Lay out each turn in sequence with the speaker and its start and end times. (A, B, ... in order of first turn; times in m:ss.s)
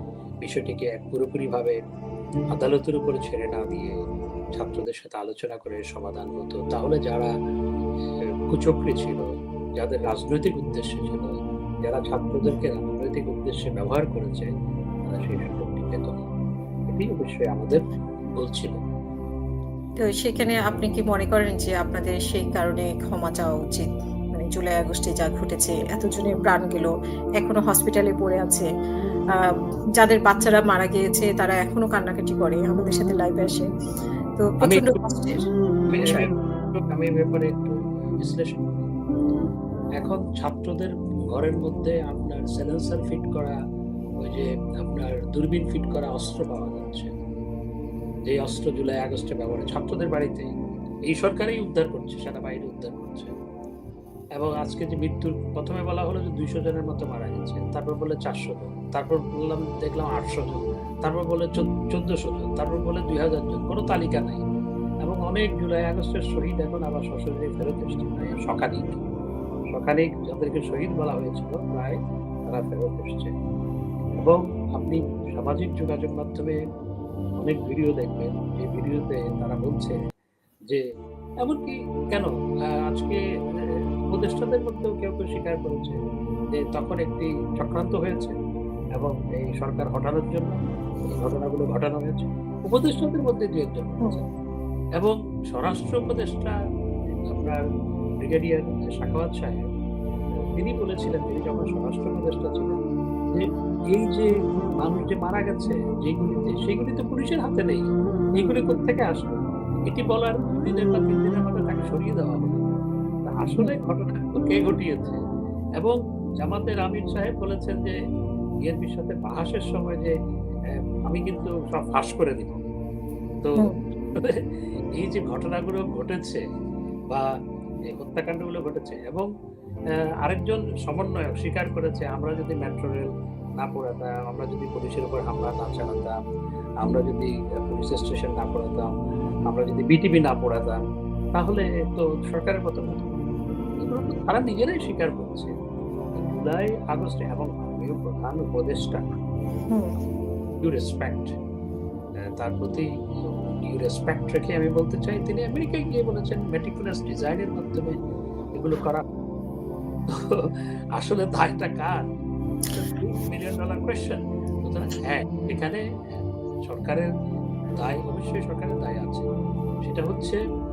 0:00.4-0:01.8 A
0:02.5-0:03.9 A
0:04.6-0:07.3 A
0:08.5-0:09.2 A
0:09.8-0:14.5 A
0:15.1-0:16.2 A
0:16.9-0:17.8 A
0:18.4-0:18.8 A
0:20.0-0:28.6 B
0:29.3-0:33.7 B
0:34.4-0:36.3 B
0:34.6-0:35.0 A
0:35.9-0:38.7 A
0:40.0-0:43.6 A
0:44.2-0:47.1 A
0:48.3-0:50.5 A
0:51.1-0:53.3 A
0:54.4-1:04.4 A
1:05.0-1:09.0 A
1:09.7-1:12.0 A
1:12.5-1:13.3 A
1:14.2-1:16.6 A
1:17.4-1:20.0 A
1:21.4-1:22.3 A
1:22.9-1:23.2 A
1:24.1-1:26.0 A
1:26.6-1:28.3 A
1:29.0-1:30.6 A
1:31.1-1:34.2 A
1:35.0-1:36.5 A
1:37.3-1:37.6 A
1:38.2-1:39.6 A
1:40.6-1:42.8 A
1:43.3-1:52.6 A
1:53.3-1:55.2 A
1:53.4-1:53.8 B
1:55.8-1:58.0 A
1:58.6-2:00.1 A
2:01.1-2:02.6 A
2:03.4-2:04.4 A
2:05.0-2:06.4 A
2:08.0-2:09.3 A
2:10.2-2:13.1 A
2:13.6-2:16.1 A
2:16.8-2:18.9 A
2:19.5-2:20.8 A
2:21.3-2:23.1 A
2:23.8-2:25.5 A
2:26.2-2:29.1 A
2:29.7-2:29.9 B
2:30.6-2:31.3 A
2:32.4-2:37.9 A
2:38.5-2:39.0 A
2:40.1-2:42.0 A
2:42.7-2:45.8 A
2:46.7-2:47.1 A
2:47.8-2:49.2 A
2:49.8-2:50.4 A